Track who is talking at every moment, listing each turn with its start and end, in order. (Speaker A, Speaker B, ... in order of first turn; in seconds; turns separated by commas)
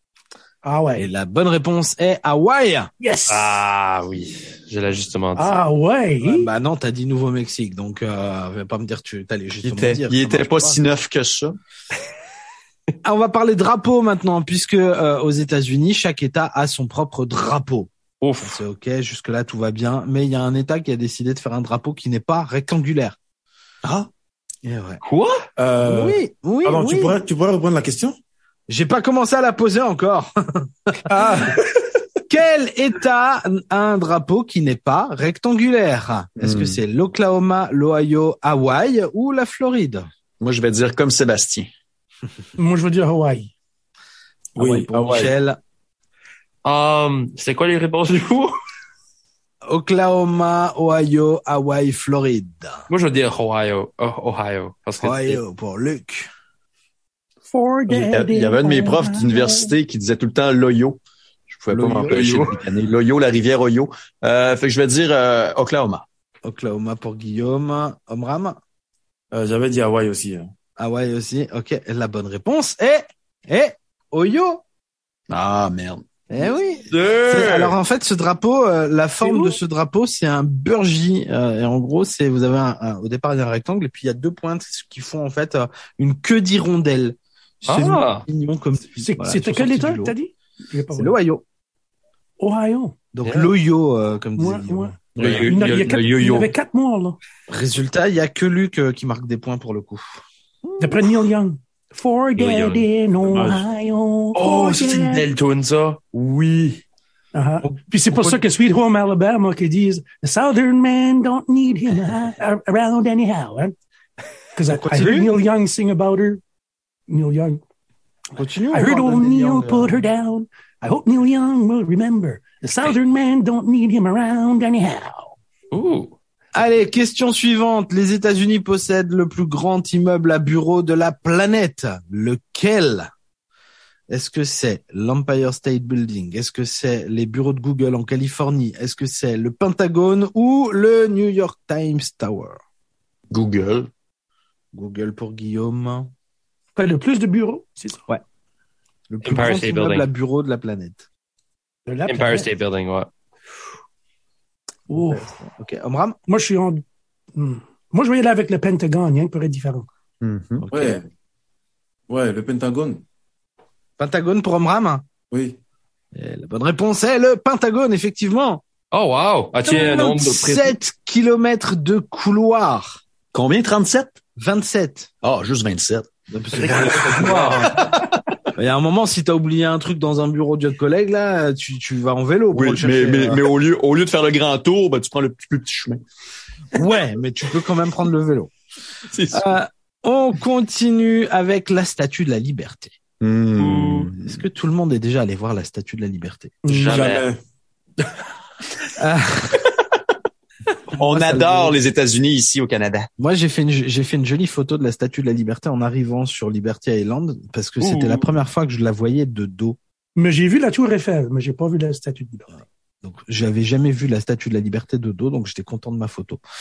Speaker A: 0.6-1.1, Speaker B: 1.0-2.9, Speaker A: 3.0-3.6, Speaker C: 3.3-5.6, Speaker A: 5.4-6.5, Speaker B: 6.2-10.8, Speaker D: 9.6-11.6, Speaker B: 13.0-23.2, Speaker C: 18.2-18.6, Speaker B: 24.6-25.0, Speaker C: 25.0-25.4, Speaker E: 25.6-28.2, Speaker B: 25.9-27.2, Speaker B: 28.7-31.2, Speaker B: 32.3-40.1, Speaker D: 36.4-36.8, Speaker D: 40.4-41.7, Speaker A: 42.6-43.5, Speaker E: 44.5-45.4, Speaker B: 44.6-45.6, Speaker C: 46.6-48.5, Speaker B: 49.7-52.9, Speaker C: 52.9-55.4, Speaker B: 55.0-56.3, Speaker A: 57.5-59.8, Speaker D: 57.9-66.0, Speaker B: 61.7-62.6, Speaker C: 62.1-62.5, Speaker B: 66.4-68.6, Speaker E: 69.3-70.5, Speaker B: 70.8-74.6, Speaker D: 75.3-76.0, Speaker B: 76.3-90.2, Speaker C: 76.4-77.8, Speaker A: 79.2-79.6, Speaker C: 87.7-88.2, Speaker A: 89.0-91.2, Speaker B: 90.9-91.4, Speaker A: 92.4-93.0, Speaker B: 93.1-94.9, Speaker C: 93.2-93.5, Speaker A: 94.4-97.2, Speaker D: 95.2-96.0, Speaker C: 95.2-96.5, Speaker B: 97.5-101.1, Speaker A: 100.8-105.3, Speaker E: 103.2-103.7, Speaker C: 104.3-106.8, Speaker A: 107.3-113.7, Speaker B: 107.6-108.4, Speaker A: 114.6-116.4, Speaker B: 114.7-115.3, Speaker A: 117.1-117.6, Speaker B: 118.3-120.0, Speaker A: 118.7-125.3, Speaker C: 125.7-126.1, Speaker B: 126.5-133.1, Speaker B: 134.1-142.6, Speaker D: 143.3-143.9, Speaker B: 144.7-146.1, Speaker A: 146.8-148.1, Speaker B: 149.1-151.1, Speaker C: 149.2-150.1, Speaker A: 151.9-152.5, Speaker C: 152.1-153.1, Speaker A: 154.9-155.3, Speaker B: 154.9-156.2, Speaker A: 156.3-156.8, Speaker A: 157.3-159.9, Speaker D: 160.2-160.6, Speaker B: 160.6-161.0, Speaker E: 160.7-161.1, Speaker E: 162.1-163.0, Speaker B: 164.0-165.0, Speaker E: 165.3-165.6, Speaker B: 166.1-168.6, Speaker C: 168.9-170.7, Speaker B: 169.7-173.0, Speaker D: 173.3-174.1, Speaker B: 174.4-175.1, Speaker D: 175.2-176.1, Speaker B: 176.3-177.9, Speaker C: 176.6-177.7, Speaker B: 178.6-183.4, Speaker D: 182.5-186.0, Speaker B: 186.8-188.5, Speaker D: 189.1-189.6, Speaker B: 189.3-192.9, Speaker D: 193.2-194.4, Speaker C: 193.6-194.1, Speaker B: 194.2-196.6, Speaker A: 196.7-197.2, Speaker C: 196.7-197.2, Speaker E: 196.9-197.4, Speaker B: 199.0-199.6, Speaker B: 200.9-201.8, Speaker D: 201.0-203.1, Speaker B: 203.2-209.8, Speaker C: 207.8-208.3, Speaker A: 210.2-212.5, Speaker B: 213.0-216.4